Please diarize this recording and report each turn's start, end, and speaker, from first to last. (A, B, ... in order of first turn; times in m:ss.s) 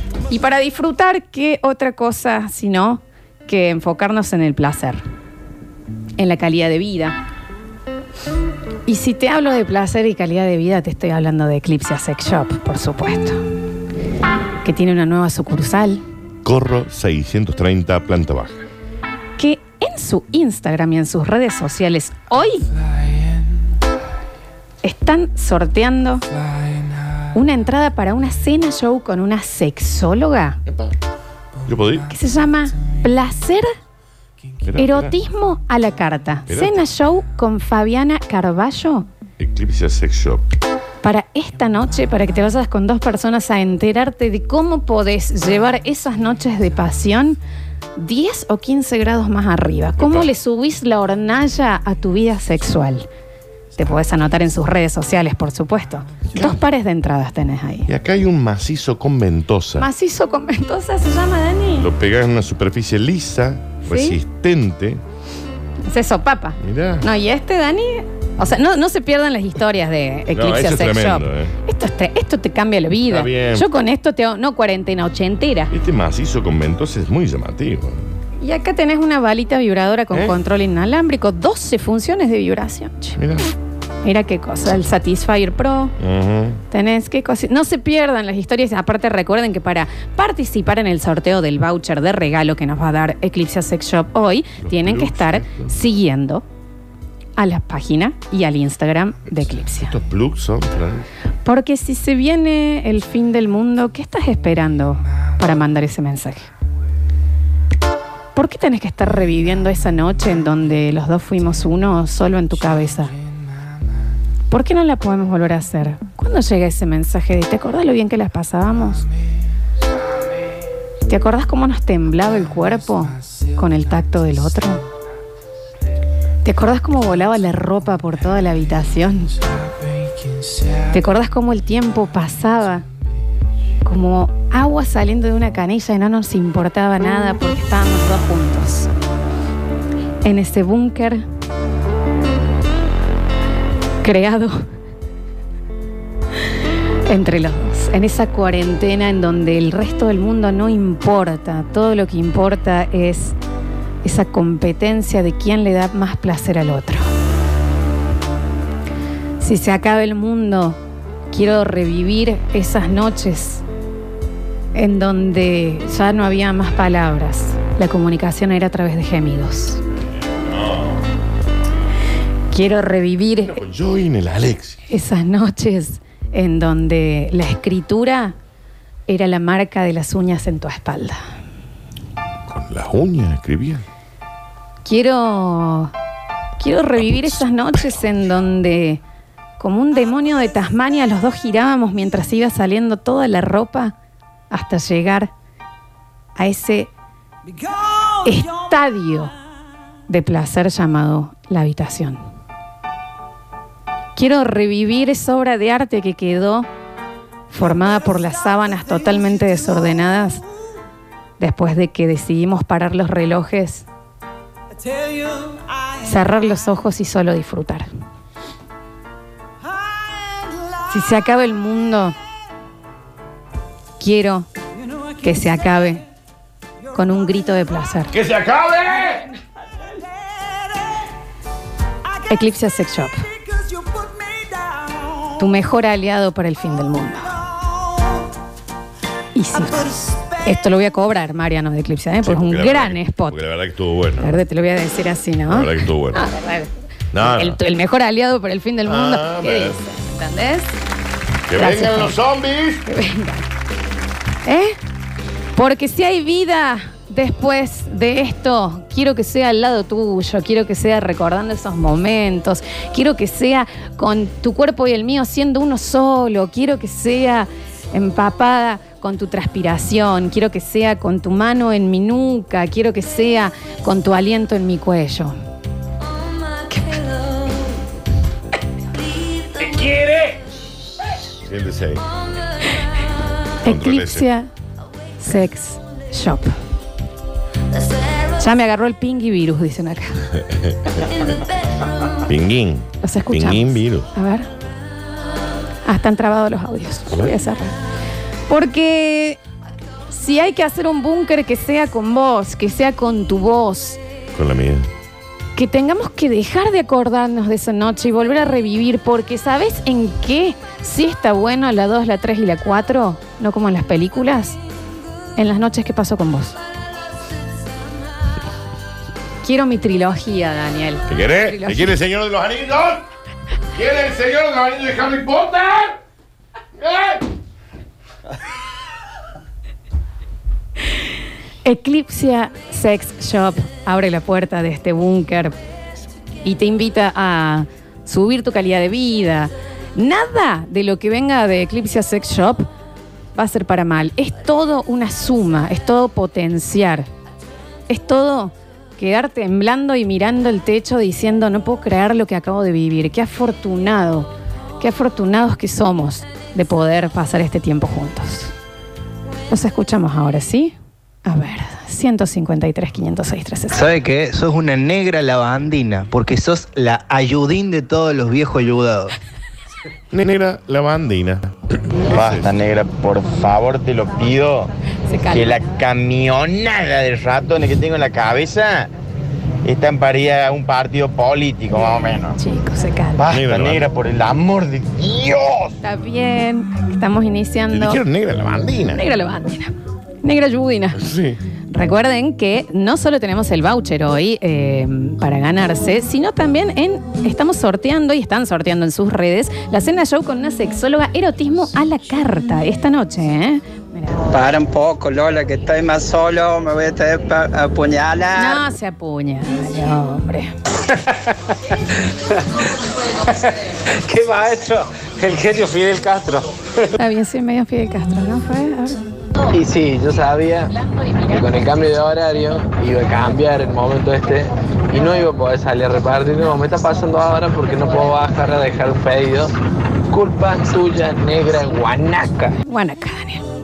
0:00.3-0:05.0 A
0:06.2-0:07.2 A
0:08.9-0:13.4 A
0:14.6-0:16.0 A
0:16.4-0:18.5 B
0:19.4-0:22.7 A
0:24.8-0:26.2 A
0:27.3-0:30.6 A
0:30.7-0:30.9 B
0:31.7-0:32.1 B
0:32.1-0:33.7 A
0:34.6-0:35.2 B
0:34.8-0:39.1 A
0:36.5-0:36.8 B
0:39.4-0:40.4 B
0:41.0-0:47.4 A
0:48.0-0:53.1 A
0:50.0-0:50.3 B
0:53.8-0:57.9 A
0:57.9-0:59.9 B
0:59.8-1:01.9 A
1:01.8-1:05.0 B
1:03.9-1:04.2 A
1:05.9-1:15.7 A
1:06.6-1:07.1 B
1:10.3-1:11.5 B
1:13.1-1:13.7 B
1:15.7-1:18.1 B
1:18.4-1:23.2 A
1:23.2-1:23.5 B
1:24.0-1:25.9 A
1:26.0-1:26.6 B
1:26.7-1:36.4 A
1:34.6-1:35.7 B
1:37.4-1:40.0 A
1:39.9-1:41.1 B
1:41.4-1:46.5 A
1:48.4-1:53.1 A
1:54.5-1:59.1 A
2:01.1-2:04.8 A
2:06.4-2:09.4 A
2:10.9-2:12.8 A
2:13.8-2:18.9 A
2:20.2-2:21.2 A
2:24.0-2:24.6 A
2:27.1-2:33.4 A
2:34.0-2:37.0 A
2:39.4-2:40.8 A
2:41.3-2:43.6 A
2:44.8-2:49.8 A
2:50.3-2:51.0 B
2:52.5-2:53.6 A
2:53.4-2:54.8 B
2:54.9-2:58.4 A
2:59.1-3:01.2 A
3:02.5-3:03.8 B
3:04.8-3:05.9 A
3:06.6-3:09.0 A
3:09.6-3:14.0 A
3:14.5-3:15.3 A
3:16.4-3:16.9 A
3:18.2-3:19.3 A
3:20.1-3:22.2 A
3:24.2-3:26.7 A
3:27.5-3:30.4 A
3:31.4-3:33.9 A
3:36.0-3:37.9 A
3:40.9-3:42.2 A
3:44.0-3:44.5 A
3:45.2-3:46.0 A
3:46.9-3:48.1 A
3:48.1-3:49.3 B
3:52.3-3:53.2 A
3:55.4-3:57.4 A
3:59.4-4:03.4 A
4:02.2-4:04.4 B
4:04.2-4:10.8 A
4:05.5-4:06.2 B
4:07.1-4:07.6 B
4:08.9-4:09.8 B
4:11.5-4:12.8 B
4:11.6-4:12.2 A
4:12.9-4:13.4 A
4:14.4-4:14.8 A
4:15.6-4:35.4 A
4:36.7-4:37.1 A
4:41.5-4:42.0 B
4:43.6-4:44.5 A
4:43.6-4:44.3 B
4:45.2-4:46.5 A
4:48.4-4:50.2 A
4:50.3-4:51.1 B
4:52.3-4:54.1 B
4:53.0-4:54.5 A
4:55.9-4:57.8 A
4:57.1-4:57.4 B
4:58.5-4:59.4 A
5:00.1-5:04.0 A
5:04.4-5:04.9 B
5:05.6-5:14.6 A
5:15.4-5:16.6 A
5:19.4-5:22.0 A
5:21.1-5:23.0 B
5:23.8-5:26.0 B
5:26.8-5:27.2 B
5:31.6-5:35.6 A
5:36.4-5:42.7 A
5:43.4-5:47.1 A
5:47.9-5:58.5 A
5:59.5-6:03.8 A
6:04.3-6:07.9 C
6:10.1-6:11.4 B
6:12.1-6:12.5 B
6:12.1-6:14.7 D
6:15.1-6:15.6 A
6:15.3-6:18.9 D
6:19.6-6:22.4 D
6:22.4-6:23.2 A
6:23.2-6:25.7 D
6:23.3-6:23.9 B
6:25.8-6:28.0 A
6:27.7-6:29.0 B
6:28.9-6:31.0 A
6:31.0-6:31.4 B
6:31.7-6:44.3 A
6:44.3-6:48.5 E
6:48.4-6:50.5 A
6:54.0-6:56.5 F
6:57.0-6:59.0 A
6:59.5-7:00.7 F
7:00.9-7:01.3 A
7:01.3-7:09.5 F
7:10.1-7:12.5 F
7:12.6-7:13.4 A